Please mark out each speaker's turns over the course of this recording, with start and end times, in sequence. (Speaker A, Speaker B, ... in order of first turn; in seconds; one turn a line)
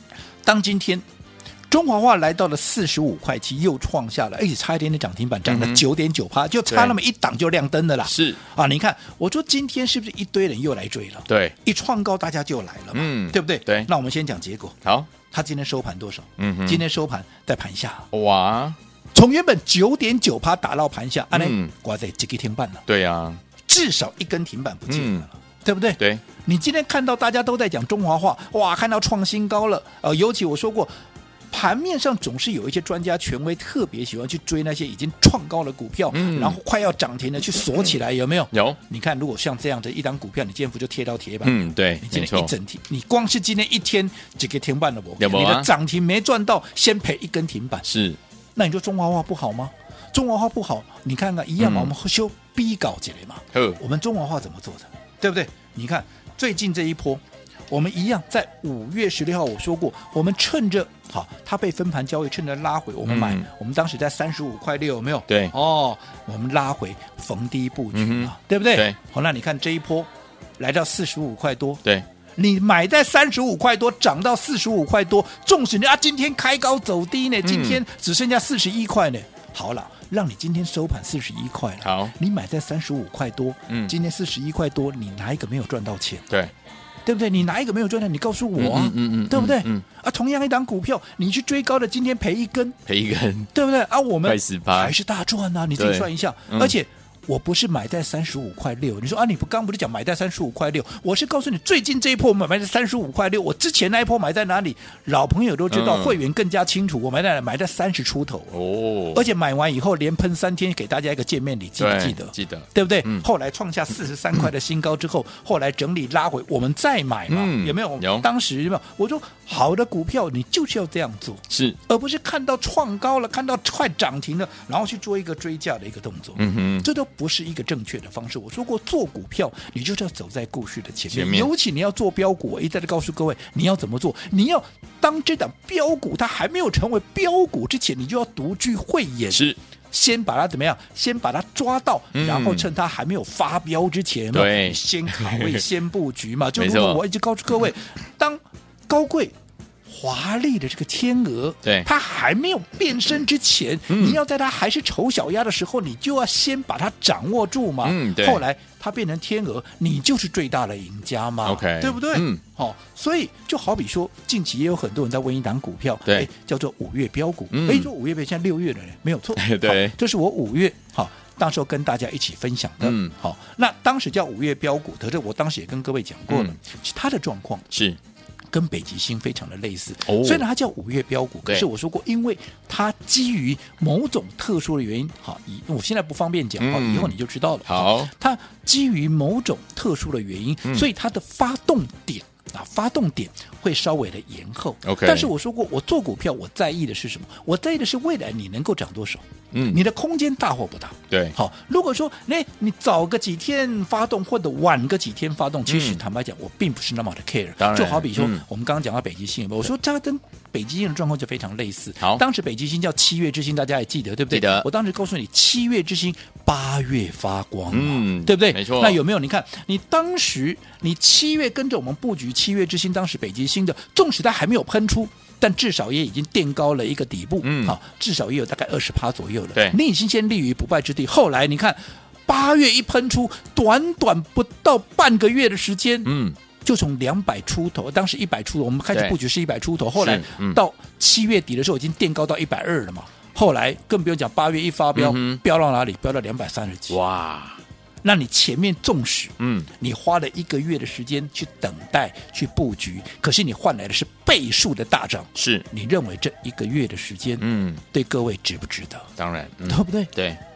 Speaker A: 0.4-1.0
Speaker A: 1.7-14.8
Speaker B: 5.5-5.8
Speaker B: 6.7-6.9
Speaker B: 8.0-8.4
Speaker B: 11.3-11.5
Speaker B: 12.9-13.9
Speaker A: 15.3-18.1
Speaker B: 16.4-16.8
Speaker B: 18.1-18.8
Speaker A: 19.1-22.8
Speaker B: 21.3-21.7
Speaker B: 22.9-23.4
Speaker A: 23.6-30.9
Speaker B: 24.9-25.2
Speaker A: 31.5-47.8
Speaker B: 36.1-36.6
Speaker B: 38.5-38.8
Speaker B: 41.4-42.5
Speaker B: 45.2-45.7
Speaker B: 47.8-48.2
Speaker A: 48.5-71.8
Speaker B: 51.6-51.9
Speaker B: 53.5-53.8
Speaker B: 63.0-63.5
Speaker B: 65.3-65.5
Speaker B: 67.9-69.0
Speaker A: 72.4-86.3
Speaker B: 77.4-77.8
Speaker B: 81.8-82.1
Speaker B: 83.7-83.9
Speaker A: 87.0-92.8
Speaker B: 88.6-89.8
Speaker B: 92.9-93.5
Speaker A: 93.5-108.5
Speaker B: 94.2-94.9
Speaker B: 95.8-96.7
Speaker B: 105.7-106.2
Speaker B: 108.5-109.2
Speaker A: 109.1-149.3
Speaker B: 111.8-113.2
Speaker B: 117.3-118.3
Speaker B: 121.5-121.8
Speaker B: 126.4-126.9
Speaker B: 131.1-131.5
Speaker B: 139.3-139.6
Speaker B: 142.1-142.7
Speaker B: 144.3-145.6
Speaker B: 146.6-147.0
Speaker A: 149.9-177.7
Speaker B: 153.9-154.2
Speaker B: 157.8-158.4
Speaker B: 161.4-162.4
Speaker B: 167.5-167.9
Speaker B: 169.3-169.9
Speaker B: 172.8-173.1
Speaker B: 176.3-176.6
Speaker B: 177.7-178.0
Speaker A: 178.5-247.0
Speaker B: 180.1-180.4
Speaker B: 186.6-188.1
Speaker B: 194.8-195.3
Speaker B: 199.5-199.8
Speaker B: 201.1-201.3
Speaker B: 205.7-206.0
Speaker B: 207.6-208.4
Speaker B: 214.3-214.7
Speaker B: 217.7-219.0
Speaker B: 227.4-227.8
Speaker B: 236.0-236.4
Speaker B: 240.0-240.6
Speaker B: 244.9-245.4
Speaker B: 246.9-247.6
Speaker A: 248.0-259.1
Speaker B: 249.4-249.7
Speaker B: 255.3-255.7
Speaker B: 257.4-257.8
Speaker B: 259.2-260.4
Speaker A: 259.6-260.1